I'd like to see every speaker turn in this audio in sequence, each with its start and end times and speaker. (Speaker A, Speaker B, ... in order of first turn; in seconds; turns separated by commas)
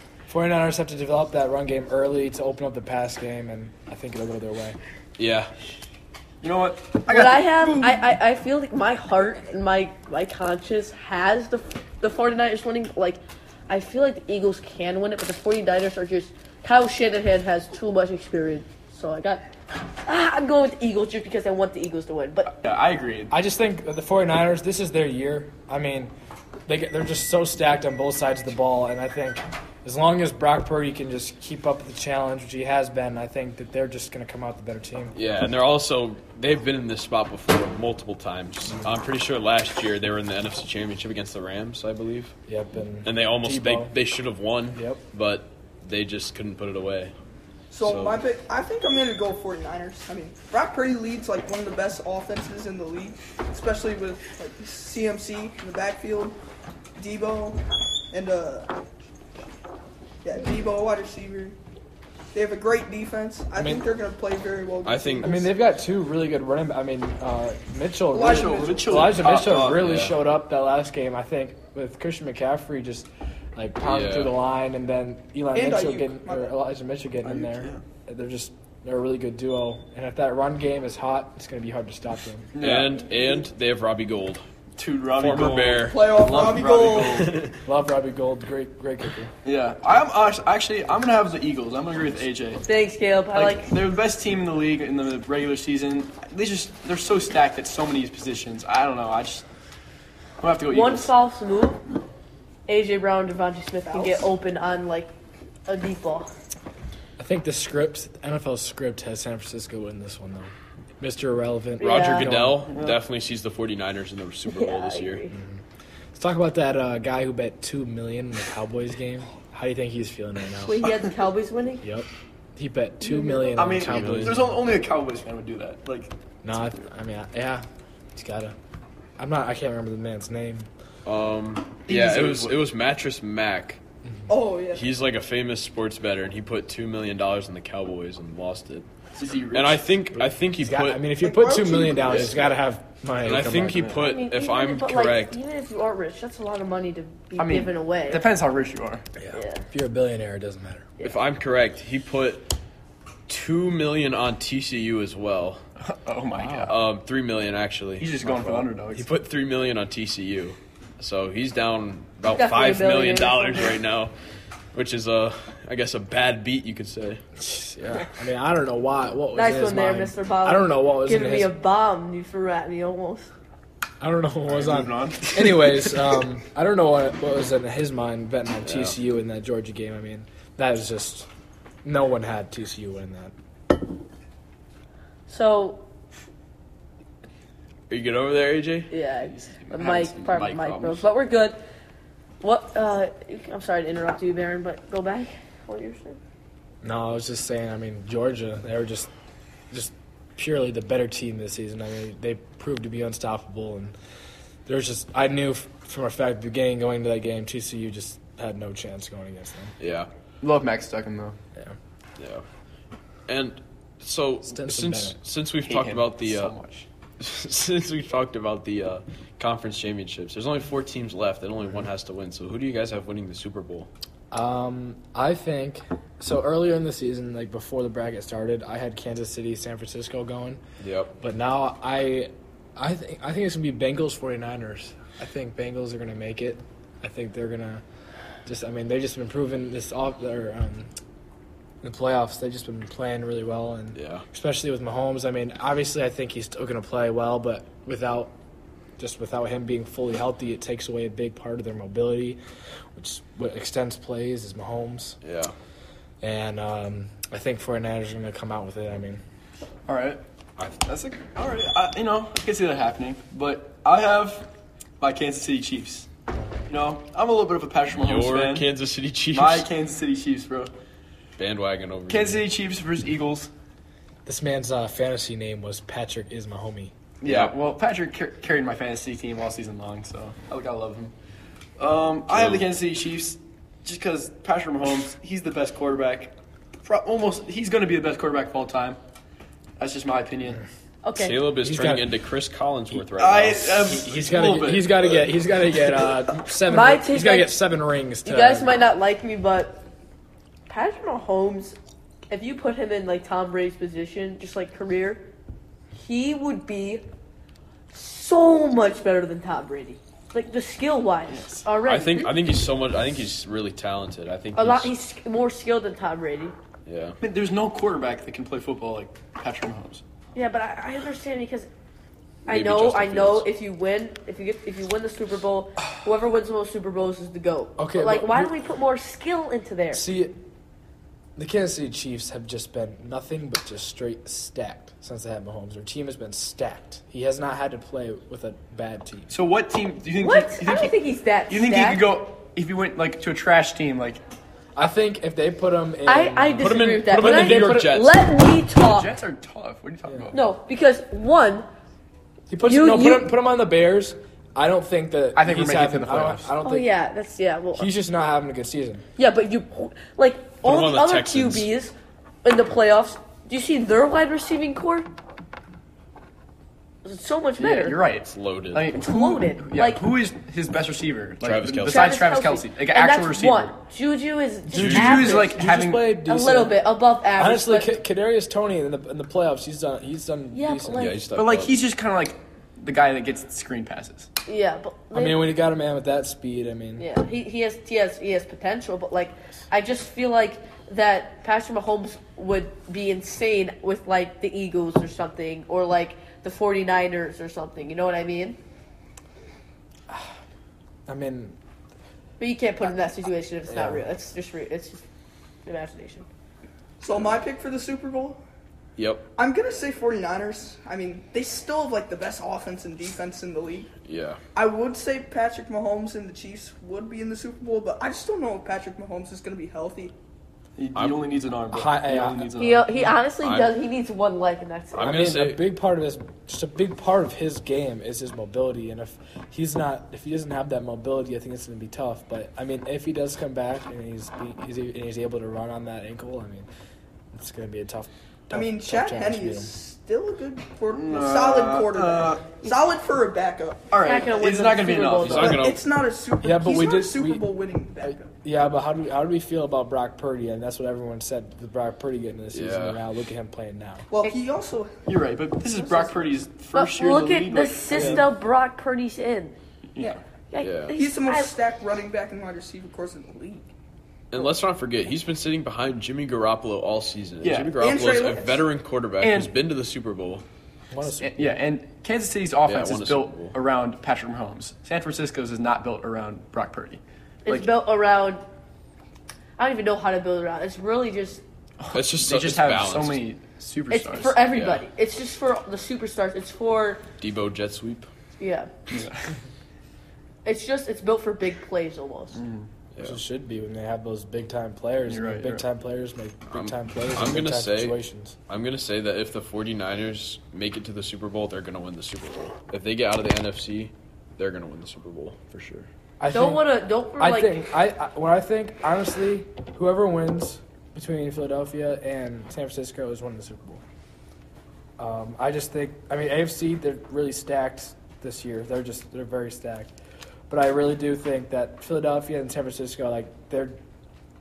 Speaker A: 0.3-4.8, Speaker B: 5.2-5.5, Speaker C: 6.4-8.0, Speaker D: 7.1-19.4, Speaker D: 20.0-22.5, Speaker C: 22.5-23.3, Speaker A: 23.3-26.1, Speaker A: 26.7-35.2, Speaker B: 35.1-42.4, Speaker A: 42.5-43.9, Speaker B: 43.0-47.1, Speaker A: 44.7-45.0, Speaker E: 47.7-56.4, Speaker B: 47.8-48.2, Speaker E: 57.0-58.7, Speaker E: 60.2-61.6, Speaker E: 62.3-65.5, Speaker A: 63.6-63.9, Speaker B: 64.8-65.3, Speaker A: 65.2-82.5, Speaker E: 68.1-69.2, Speaker C: 68.2-70.1, Speaker B: 69.5-70.2, Speaker B: 73.8-74.4, Speaker E: 75.5-76.5, Speaker C: 77.2-77.8, Speaker C: 82.5-83.0, Speaker B: 82.6-84.4, Speaker C: 84.8-87.5, Speaker B: 85.1-86.3, Speaker E: 85.8-87.4, Speaker B: 87.1-87.5, Speaker A: 87.7-89.3, Speaker C: 89.4-92.6, Speaker D: 92.7-93.7, Speaker C: 93.3-99.4, Speaker C: 100.4-101.1, Speaker D: 100.7-101.8, Speaker D: 102.7-105.1, Speaker E: 103.9-104.3, Speaker D: 105.7-106.3, Speaker A: 107.2-112.7, Speaker D: 111.8-112.3, Speaker B: 111.8-115.2, Speaker C: 112.7-113.0, Speaker D: 114.5-115.4, Speaker A: 115.3-115.6, Speaker A: 116.2-120.9, Speaker D: 120.7-121.8, Speaker A: 121.8-124.6, Speaker C: 123.5-126.1, Speaker B: 123.8-124.4, Speaker A: 126.4-128.6, Speaker A: 129.2-130.7, Speaker B: 131.1-133.8, Speaker C: 131.9-132.6, Speaker E: 134.3-134.9, Speaker B: 134.7-138.9, Speaker C: 139.2-139.9, Speaker B: 139.5-141.1, Speaker A: 140.2-144.0, Speaker E: 141.2-142.5, Speaker B: 143.2-145.4, Speaker D: 144.0-148.2, Speaker C: 147.4-149.1, Speaker D: 149.3-149.6, Speaker A: 149.7-150.9, Speaker B: 151.0-152.5, Speaker B: 153.3-155.6, Speaker C: 155.8-156.8, Speaker B: 156.5-164.1, Speaker C: 158.0-159.1, Speaker D: 162.3-163.8, Speaker B: 164.7-167.2, Speaker A: 167.4-171.5, Speaker D: 169.3-173.3, Speaker A: 174.0-181.3, Speaker C: 174.5-175.4, Speaker B: 178.7-178.9, Speaker A: 181.8-183.3, Speaker D: 185.3-185.8, Speaker B: 187.9-188.9, Speaker D: 188.9-191.6, Speaker C: 189.2-191.0, Speaker D: 192.4-196.2, Speaker A: 196.8-199.1, Speaker A: 199.7-203.9, Speaker A: 204.7-209.8, Speaker B: 209.8-210.1, Speaker C: 210.4-211.4, Speaker B: 212.2-212.4, Speaker B: 213.3-216.5, Speaker A: 214.5-215.2, Speaker C: 215.6-216.9, Speaker B: 217.2-223.9, Speaker A: 224.3-230.6, Speaker B: 230.8-231.1, Speaker A: 231.2-237.8, Speaker A: 238.4-240.9, Speaker A: 241.8-248.3, Speaker B: 243.9-244.2, Speaker A: 249.0-252.4, Speaker A: 252.9-255.2, Speaker B: 255.2-255.5, Speaker A: 256.2-259.2, Speaker C: 259.9-260.2, Speaker C: 260.8-264.5, Speaker C: 265.0-266.1, Speaker C: 266.7-268.7, Speaker B: 267.9-269.7, Speaker C: 269.3-270.7, Speaker B: 271.4-272.5, Speaker C: 272.1-273.5, Speaker A: 274.3-276.9, Speaker C: 277.2-281.1, Speaker B: 277.2-277.6, Speaker C: 281.8-289.0, Speaker B: 282.3-282.7, Speaker C: 289.8-290.6, Speaker D: 291.0-291.4, Speaker B: 291.1-294.0, Speaker A: 291.6-292.1, Speaker C: 293.0-295.3, Speaker A: 293.9-298.8, Speaker D: 296.7-297.6, Speaker D: 298.2-299.8, Speaker D: 300.7-301.8, Speaker D: 302.3-305.2, Speaker D: 305.9-307.0, Speaker D: 307.9-312.3, Speaker C: 311.3-311.7, Speaker B: 311.8-314.9, Speaker D: 314.6-316.6, Speaker B: 316.9-317.2, Speaker C: 317.2-320.0, Speaker D: 320.4-321.7, Speaker D: 322.4-330.1, Speaker B: 322.5-323.5, Speaker A: 327.8-328.6, Speaker A: 329.9-330.4, Speaker A: 331.4-339.3, Speaker C: 339.3-344.2, Speaker D: 340.2-342.1, Speaker A: 344.8-347.8, Speaker D: 346.1-349.1, Speaker B: 346.6-348.3, Speaker C: 348.8-350.4, Speaker A: 350.1-350.3, Speaker D: 350.3-351.7, Speaker A: 352.5-356.9, Speaker D: 352.6-353.3, Speaker C: 355.4-356.5, Speaker D: 356.6-357.9, Speaker A: 357.8-359.0, Speaker D: 359.2-365.1, Speaker B: 360.6-361.7, Speaker D: 367.0-368.0, Speaker C: 367.6-373.8, Speaker B: 368.3-368.9, Speaker D: 368.9-370.0, Speaker B: 371.4-372.2, Speaker D: 371.9-375.6, Speaker A: 374.7-376.8, Speaker B: 374.8-375.2, Speaker C: 374.8-376.2, Speaker D: 376.2-377.9, Speaker A: 377.4-381.1, Speaker D: 380.5-381.2, Speaker B: 380.9-381.8, Speaker C: 381.3-384.3, Speaker D: 384.5-385.5, Speaker A: 385.1-387.1, Speaker D: 387.0-398.6, Speaker A: 401.1-401.6, Speaker D: 402.4-405.0, Speaker A: 403.7-404.0, Speaker D: 405.6-406.3, Speaker E: 407.0-408.4, Speaker B: 409.0-409.3, Speaker E: 409.4-413.9, Speaker B: 414.1-414.4, Speaker E: 414.6-420.1, Speaker C: 420.8-422.9, Speaker B: 420.9-421.2, Speaker A: 421.7-422.5, Speaker D: 422.6-425.1, Speaker B: 423.4-423.8, Speaker B: 424.9-425.7, Speaker A: 425.0-436.7, Speaker A: 437.3-439.7, Speaker E: 438.5-443.9, Speaker C: 440.9-442.6, Speaker C: 443.9-445.7, Speaker D: 444.1-445.6, Speaker B: 445.2-445.8, Speaker E: 445.4-448.3, Speaker A: 446.4-447.5, Speaker A: 448.0-454.1, Speaker B: 452.5-453.0, Speaker E: 454.1-455.0, Speaker C: 455.1-458.3, Speaker E: 455.8-456.1, Speaker D: 456.7-459.6, Speaker A: 457.9-458.2, Speaker C: 459.9-460.2, Speaker D: 460.5-461.5, Speaker B: 460.6-460.9, Speaker E: 460.9-463.7, Speaker B: 464.3-470.4, Speaker C: 467.4-467.8, Speaker E: 467.8-468.7, Speaker C: 469.2-469.6, Speaker A: 470.9-471.6, Speaker C: 471.2-477.7, Speaker B: 472.6-473.6, Speaker D: 477.4-478.4, Speaker D: 479.6-481.4, Speaker C: 481.8-484.4, Speaker B: 481.9-483.2, Speaker D: 483.9-487.0, Speaker B: 484.5-484.8, Speaker B: 487.2-488.1, Speaker D: 488.4-488.7, Speaker C: 488.9-489.2, Speaker D: 490.4-492.4, Speaker C: 492.4-492.7, Speaker B: 492.9-493.2, Speaker A: 493.0-498.4, Speaker C: 495.1-495.6, Speaker B: 496.5-505.9, Speaker A: 506.2-513.8, Speaker D: 506.3-507.6, Speaker A: 515.0-519.9, Speaker A: 520.5-523.8